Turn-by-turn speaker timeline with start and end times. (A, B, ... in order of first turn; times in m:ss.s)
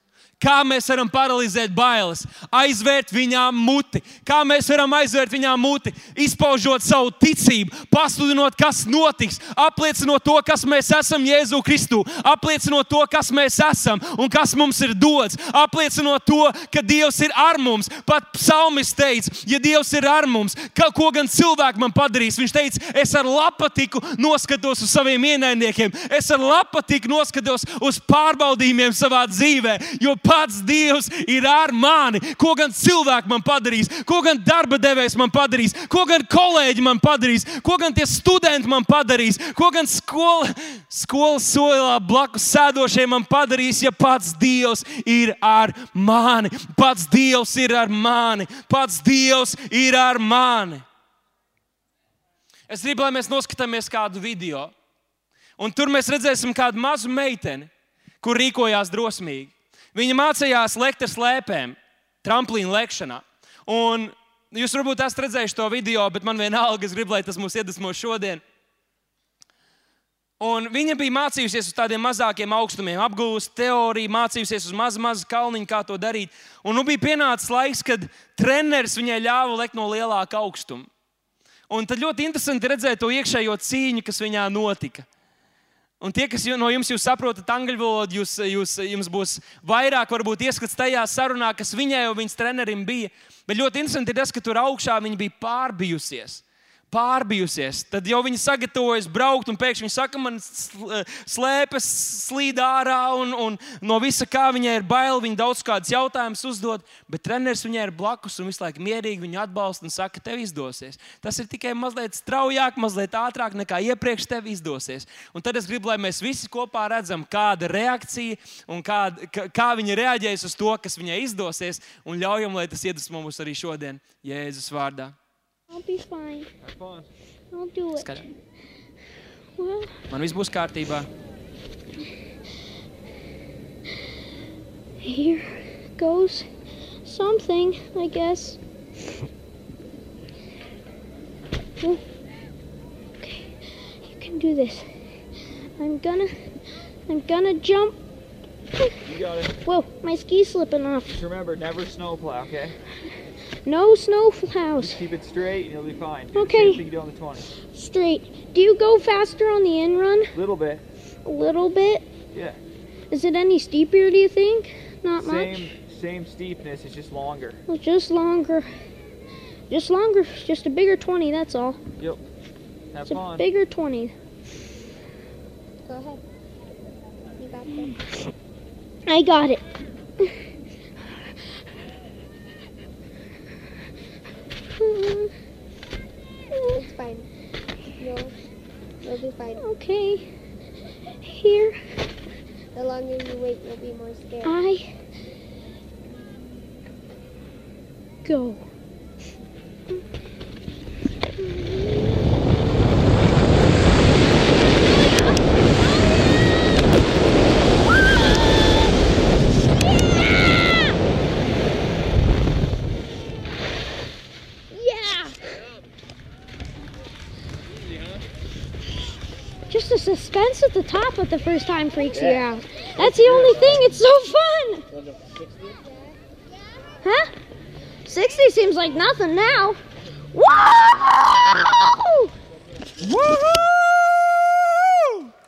0:00.4-0:50.8 A
0:52.7-0:54.7 A
0:55.6-0:57.7 A
0:58.2-1:08.4 A
1:10.4-1:20.9 A
1:21.7-1:25.1 A
1:26.0-2:05.1 A
2:05.7-2:06.5 B
2:06.6-2:07.1 C
2:07.5-2:08.2 B
2:08.0-2:08.3 A
2:09.6-2:10.0 B
2:10.1-2:11.1 A
2:15.0-2:16.5 B
2:17.0-2:18.6 B
2:23.2-2:24.9 B
2:25.8-2:26.4 B
2:27.1-2:28.0 B
2:29.0-2:29.6 C
2:29.6-2:31.2 B
2:31.1-2:32.8 C
2:33.6-2:35.0 B
2:34.8-2:37.6 C
2:36.3-2:36.8 B
2:37.7-2:40.3 B
2:40.3-2:40.8 C
2:41.2-2:42.0 B
2:43.1-2:45.7 B
2:45.2-2:47.6 C
2:47.7-2:48.7 B
2:49.7-2:51.8 B
2:52.9-2:53.4 C
2:53.0-2:54.1 B
2:55.8-2:56.2 D
2:57.4-2:57.9 D
2:59.1-2:59.6 B
3:04.8-3:05.3 B
3:06.5-3:06.8 B
3:06.7-3:07.3 D
3:08.0-3:08.3 D
3:09.0-3:09.6 D
3:09.6-3:10.3 B
3:11.2-3:11.8 B
3:12.7-3:14.6 D
3:14.4-3:14.9 B
3:18.2-3:18.6 B
3:21.4-3:22.1 B
3:34.7-3:35.4 B
3:39.7-3:44.9 B
3:47.0-3:47.3 B
3:48.0-3:49.8 B
3:50.3-3:52.3 B
3:53.0-3:55.3 A